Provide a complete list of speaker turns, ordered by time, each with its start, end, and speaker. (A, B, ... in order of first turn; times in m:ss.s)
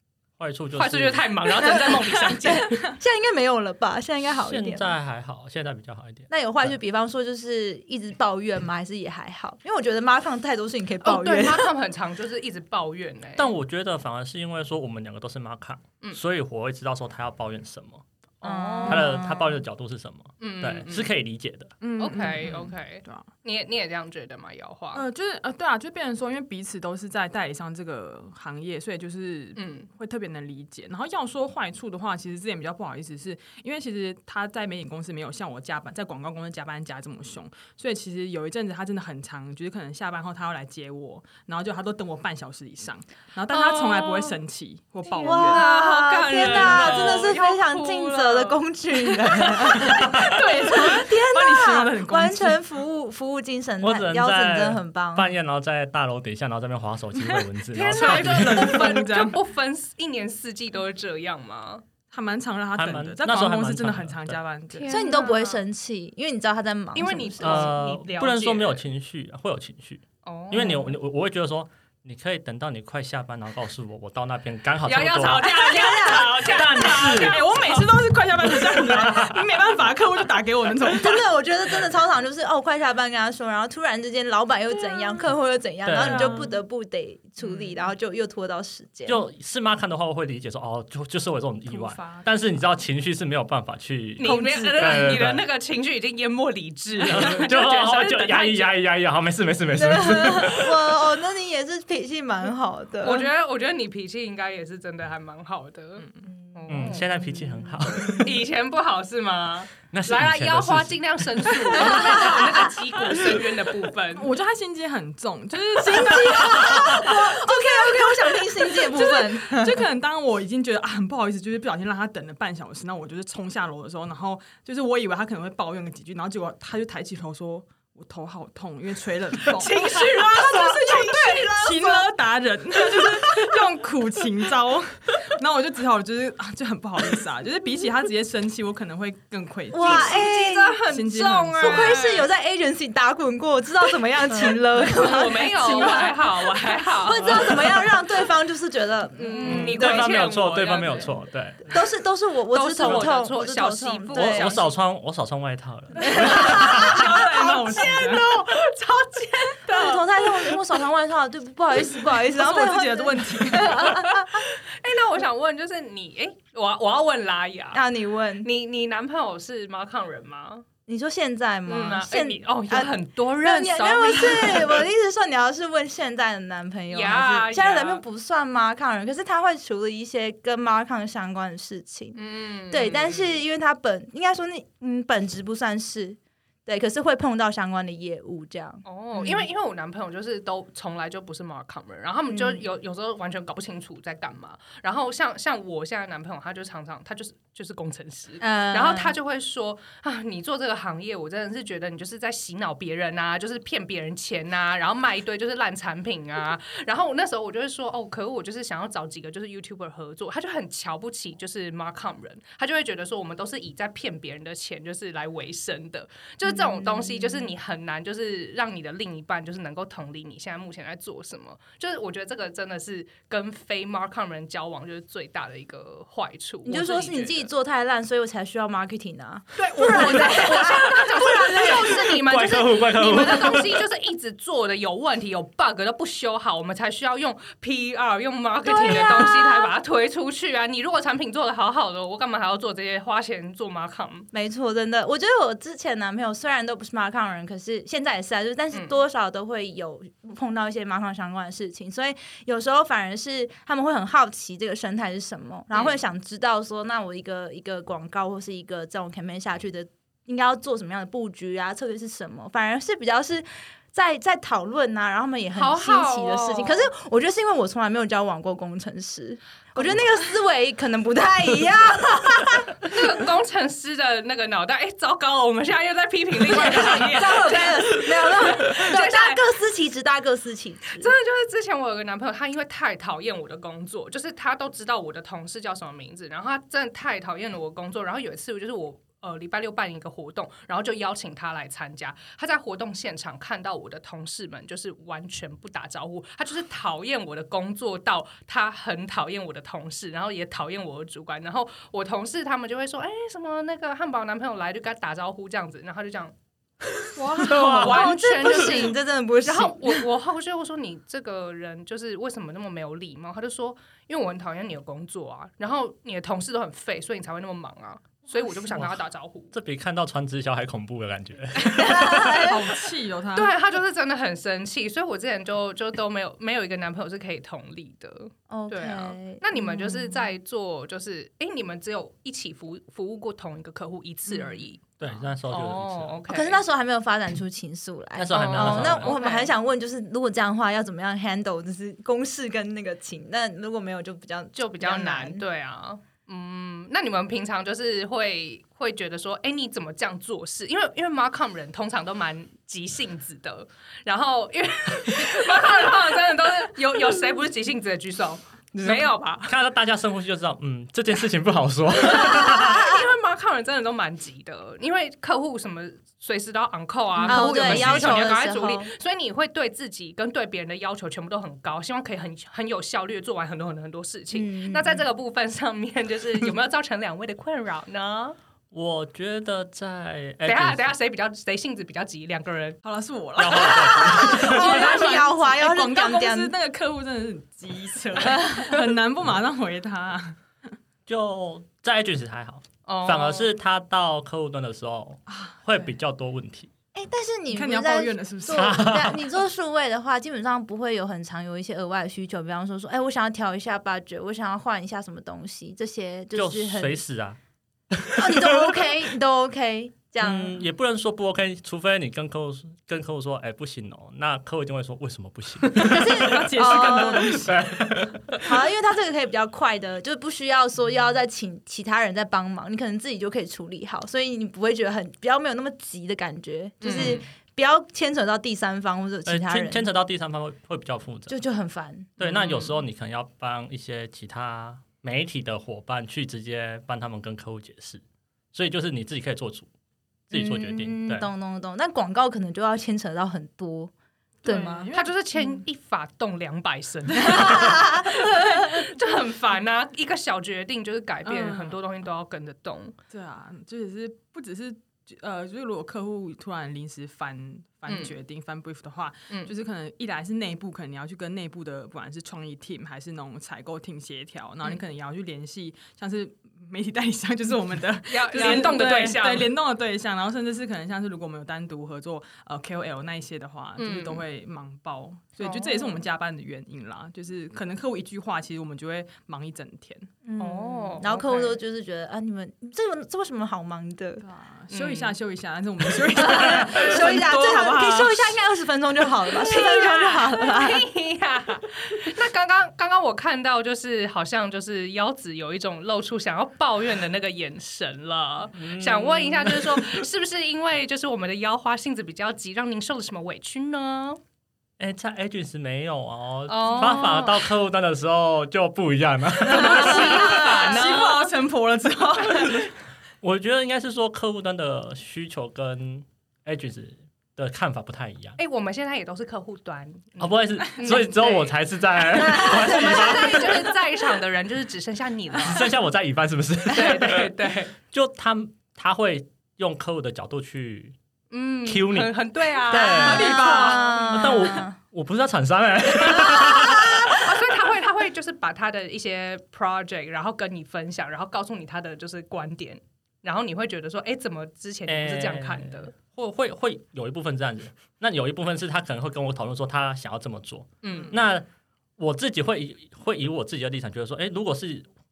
0:00.4-0:01.3 A
0:00.8-0:02.9 B
0:02.4-0:04.9 C
0:04.4-0:06.8 A
0:06.3-0:11.7 C
0:11.0-0:13.5 B
0:13.4-0:18.0 A
0:18.4-0:19.1 B
0:18.4-0:19.6 C
0:18.8-0:21.8 A
0:20.4-0:21.1 B
0:21.8-0:23.3 D
0:22.0-0:25.0 B
0:24.9-0:45.6 D
0:29.6-0:29.9 B
0:43.5-0:44.4 B
0:45.1-0:48.6 B
0:45.2-0:55.3 C
0:49.3-0:50.0 B
0:49.4-0:52.6 D
0:53.8-0:59.0 A
0:57.7-0:59.4 D
0:57.7-1:01.8 B
1:02.1-1:04.9 D
1:02.8-1:04.4 A
1:04.7-1:05.6 B
1:04.9-1:07.8 C
1:06.9-1:08.8 B
1:07.4-1:15.6 A
1:10.2-1:11.0 B
1:14.8-1:17.6 B
1:15.4-1:17.0 C
1:16.4-1:17.4 A
1:16.9-1:21.2 D
1:18.6-1:19.5 A
1:21.0-1:29.2 C
1:25.8-1:26.5 A
1:26.0-1:26.5 D
1:29.1-1:35.4 A
1:31.7-1:32.3 D
1:34.2-1:38.8 B
1:34.2-1:34.8 C
1:37.0-1:41.0 A
1:39.7-1:43.3 C
1:43.0-1:47.2 B
1:46.7-1:48.3 A
1:48.0-1:54.3 B
1:49.9-1:51.8 A
1:51.8-1:52.4 C
1:54.2-2:20.2 D
1:55.8-1:59.9 C
2:09.5-2:11.6 B
2:10.0-2:12.1 C
2:12.9-2:13.5 C
2:19.7-2:20.8 C
2:19.8-2:22.3 B
2:20.9-2:22.0 D
2:21.6-2:30.2 C
2:24.8-2:27.6 B
2:25.6-2:26.2 D
2:29.2-2:31.1 B
2:29.4-2:31.8 A
2:31.7-2:34.6 C
2:32.5-2:34.7 B
2:32.8-2:33.1 A
2:34.1-2:37.2 A
2:36.0-2:37.9 C
2:36.1-2:38.3 D
2:36.3-2:40.5 B
2:39.7-2:44.4 C
2:42.2-2:44.0 D
2:43.8-2:47.8 B
2:47.7-2:48.5 C
2:48.4-2:50.7 B
2:50.9-3:02.2 C
2:51.7-2:54.8 B
2:56.9-2:58.0 B
3:02.2-3:03.4 B
3:02.7-3:09.5 C
3:08.8-3:47.5 B
3:12.3-3:12.6 C
3:18.4-3:19.2 C
3:36.5-3:37.5 C
3:46.6-3:52.1 C
3:49.6-4:04.3 B
3:51.7-3:53.8 A
3:58.6-3:59.7 C
4:04.3-4:32.7 C
4:08.7-4:09.0 B
4:15.7-4:16.0 B
4:25.6-4:26.9 B
4:32.8-4:39.4 B
4:36.5-4:41.1 C
4:41.0-5:06.3 B
5:07.2-5:07.8 D
5:07.2-5:19.5 B
5:07.4-5:08.1 A
5:07.4-5:10.1 C
5:18.7-5:22.5 A
5:21.8-5:22.6 C
5:21.8-5:23.6 D
5:23.4-5:36.6 B
5:28.5-5:30.3 C
5:34.3-5:34.6 C
5:35.0-5:36.2 A
5:36.3-5:45.4 C
5:38.2-5:39.2 A
5:38.3-5:39.5 B
5:44.6-5:59.5 B
5:58.7-6:03.0 A
6:02.0-6:18.4 B
6:07.2-6:08.9 C
6:07.3-6:08.2 A
6:14.3-6:15.0 C
6:18.7-6:20.9 A
6:20.4-6:22.8 B
6:22.8-6:30.4 D
6:23.4-6:25.0 A
6:24.1-6:26.5 C
6:31.1-6:36.7 A
6:32.9-6:33.5 B
6:35.3-6:35.9 D
6:37.0-6:47.0 C
6:37.5-6:39.1 D
6:38.5-6:39.2 A
6:46.4-6:47.4 A
6:47.9-6:49.0 A
6:48.2-6:50.6 C
6:50.2-6:58.5 A
6:55.6-6:57.6 D
6:55.9-6:57.4 C
6:58.4-7:09.9 C
7:06.8-7:07.2 B
7:06.8-7:07.2 D
7:09.3-7:11.4 A
7:11.3-7:12.2 C
7:12.2-7:18.0 A
7:12.2-7:12.7 B
7:18.5-7:19.7 A
7:20.3-7:21.3 A
7:20.3-7:23.9 C
7:24.4-7:25.6 D
7:24.4-7:24.9 C
7:24.9-7:33.0 B
7:27.3-7:28.6 C
7:31.2-7:31.8 D
7:33.1-8:00.1 D
7:37.9-7:38.1 B
7:48.1-7:49.5 B
7:53.8-7:54.2 B
7:55.4-7:56.0 B
8:00.2-8:04.2 C
8:00.4-8:01.6 B
8:04.2-8:08.4 D
8:04.7-8:05.2 B
8:06.1-8:10.8 C
8:09.3-8:24.2 B
8:18.6-8:20.0 A
8:24.8-8:30.4 A
8:26.5-8:27.4 B
8:29.5-8:31.3 B
8:29.5-8:32.7 D
8:33.2-8:38.4 A
8:38.4-8:41.5 B
8:40.2-8:43.7 A
8:42.1-8:43.7 C
8:42.2-8:45.7 B
8:45.4-8:47.3 A
8:46.7-8:47.7 B
8:47.9-8:51.0 A
8:51.3-8:54.2 B
8:51.7-8:53.4 A
8:52.7-8:54.7 C
8:53.0-8:53.9 D
8:54.1-8:57.3 A
8:56.2-8:57.1 C
8:57.1-9:05.9 B
9:04.9-9:11.4 A
9:10.8-9:11.2 B
9:12.0-9:14.9 A